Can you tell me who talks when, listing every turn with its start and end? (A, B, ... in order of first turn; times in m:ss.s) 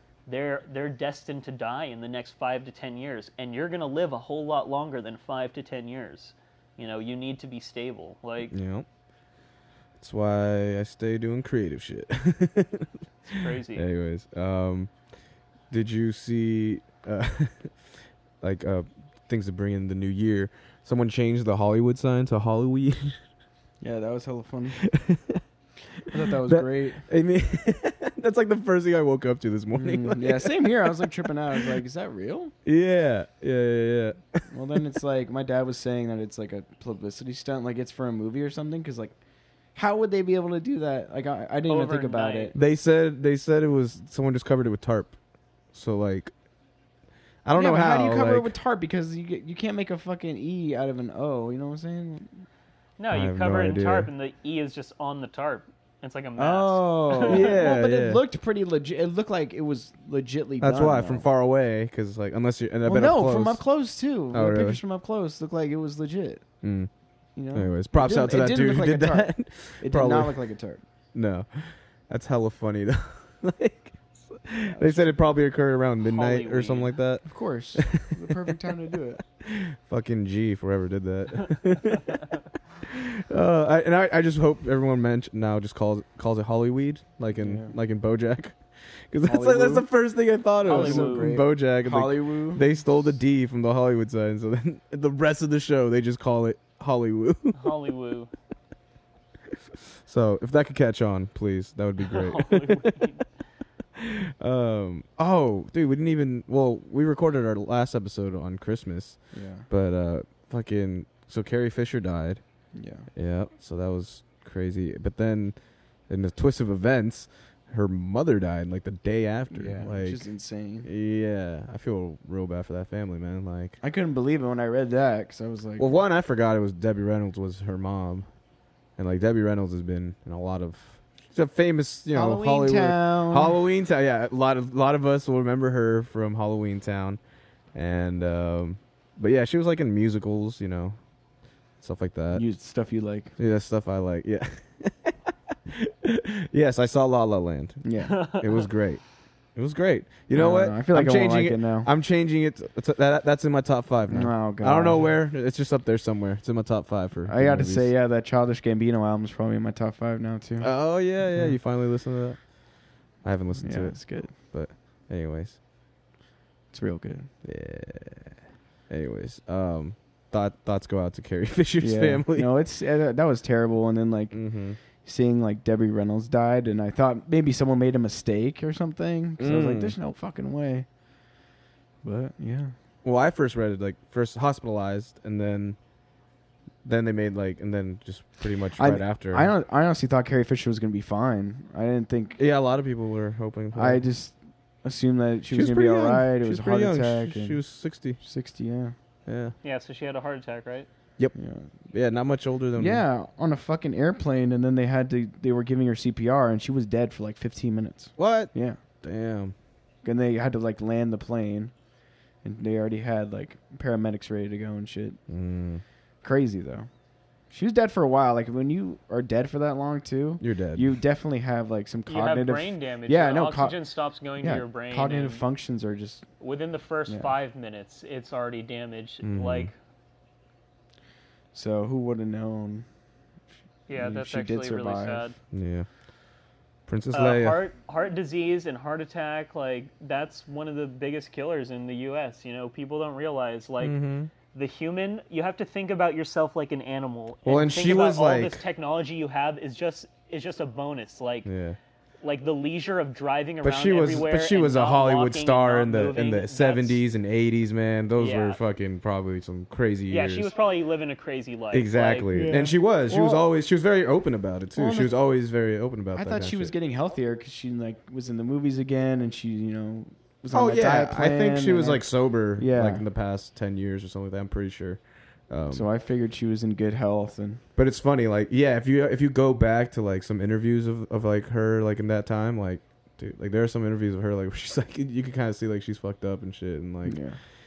0:00.3-0:08.6 A
0:08.5-0:08.9 B
0:10.0-0:12.9 B
0:13.2-0:13.8 A
0:13.5-0:14.9 B
0:15.7-0:17.7 B
0:18.4-0:23.2 B
0:23.8-0:24.8 C
0:24.8-0:25.4 B
0:26.1-0:27.0 C
0:26.3-0:31.7 B
0:29.7-0:32.5 C
0:32.6-0:34.4 B
0:34.5-0:39.2 C
0:39.8-0:42.6 C
0:41.7-0:42.5 A
0:42.5-0:45.2 B
0:45.7-0:46.3 B
0:47.4-0:48.5 B
0:47.5-0:52.4 C
0:53.0-0:57.6 A
0:53.1-0:54.1 B
0:56.4-1:01.3 C
0:57.2-0:58.2 B
1:00.6-1:03.6 B
1:02.9-1:06.4 C
1:04.3-1:04.8 B
1:06.6-1:06.9 B
1:07.4-1:10.8 C
1:07.5-1:10.4 B
1:11.1-1:18.6 B
1:14.6-1:15.3 C
1:16.0-1:16.9 A
1:17.3-1:19.2 C
1:19.4-1:37.7 B
1:27.4-1:27.7 C
1:29.2-1:29.9 C
1:30.6-1:32.6 C
1:30.7-1:31.3 A
1:37.6-1:38.3 A
1:40.0-1:43.0 B
1:42.1-1:43.3 A
1:44.0-1:52.4 B
1:49.3-1:49.7 C
1:52.7-1:53.1 C
1:53.2-1:55.6 B
1:56.1-2:00.2 B
1:59.5-2:00.9 C
2:00.8-2:03.8 B
2:03.8-2:06.0 C
2:05.8-2:08.3 B
2:09.0-2:17.2 B
2:12.1-2:13.6 C
2:17.7-2:21.0 B
2:21.8-2:22.4 B
2:22.3-2:23.3 C
2:23.4-2:29.0 B
2:27.8-2:28.2 C
2:28.0-2:28.7 A
2:29.6-2:37.9 B
2:30.3-2:31.9 C
2:34.1-2:35.2 C
2:37.3-2:41.6 C
2:40.6-2:42.5 B
2:43.2-2:45.6 B
2:43.6-2:44.3 C
2:46.7-2:47.3 C
2:47.4-2:48.4 B
2:48.9-2:52.5 B
2:51.8-2:54.4 C
2:54.3-2:54.8 B
2:55.0-3:00.9 C
2:59.4-3:00.0 B
3:02.0-3:02.7 C
3:03.0-3:05.8 B
3:06.8-3:09.5 B
3:08.8-3:12.4 C
3:12.4-3:14.0 B
3:13.7-3:17.6 C
3:15.5-3:18.2 B
3:18.2-3:18.9 C
3:19.3-3:19.6 B
3:19.6-3:20.9 A
3:21.4-3:21.7 C
3:21.9-3:23.0 B
3:22.8-3:28.8 C
3:28.2-3:29.5 B
3:30.0-3:31.7 C
3:32.4-3:35.2 C
3:35.3-3:35.8 B
3:36.2-3:36.9 C
3:37.5-3:43.8 C
3:40.4-3:41.0 B
3:42.1-3:45.4 A
3:44.4-3:46.3 C
3:46.4-3:49.7 A
3:47.1-3:47.3 C
3:49.2-3:49.7 B
3:51.5-3:52.9 C
3:53.9-3:55.4 A
3:54.0-3:55.3 C
3:55.5-3:55.9 B
3:56.9-3:57.6 B
3:57.1-4:04.0 A
4:03.8-4:04.3 B
4:04.5-4:11.5 A
4:07.4-4:08.6 B
4:11.4-4:11.8 B
4:12.2-4:17.0 A
4:13.6-4:20.5 B
4:18.2-4:18.6 A
4:20.1-4:22.3 A
4:21.7-4:26.7 B
4:22.3-4:23.5 C
4:24.8-4:25.1 C
4:26.1-4:32.0 C
4:30.5-4:35.9 B
4:32.6-4:33.0 C
4:35.7-4:37.6 C
4:37.8-4:47.3 B
4:47.0-4:47.4 C